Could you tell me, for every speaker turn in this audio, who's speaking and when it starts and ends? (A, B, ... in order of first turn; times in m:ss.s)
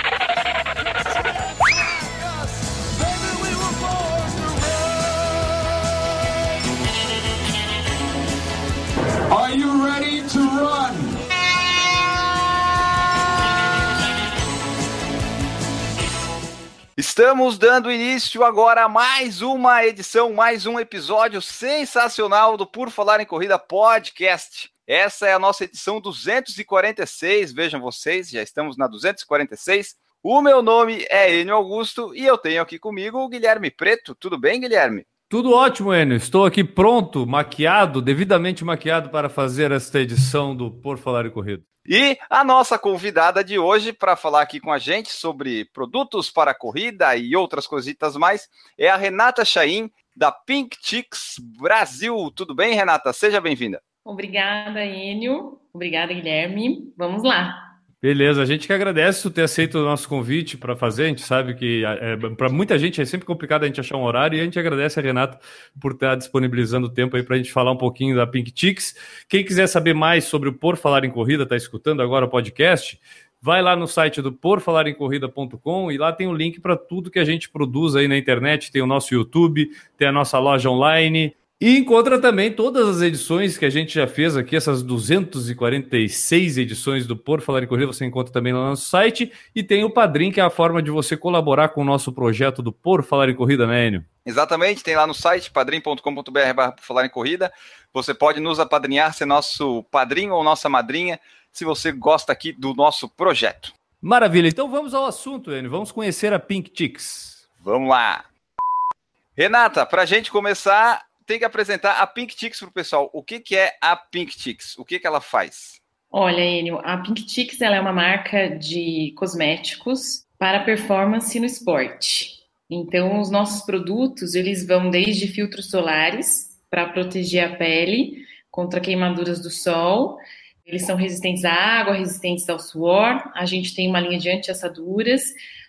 0:00.8-0:05.8 A
0:09.3-0:11.2 A
0:17.0-0:35.1 B
0:35.3-0:41.6 C
0:41.9-0:53.8 B
0:54.0-0:57.7 D
0:58.0-1:34.1 C
1:34.2-1:43.7 B
1:44.0-1:47.4 C
1:47.6-1:48.3 B
1:49.4-1:55.8 B
1:56.1-2:15.4 D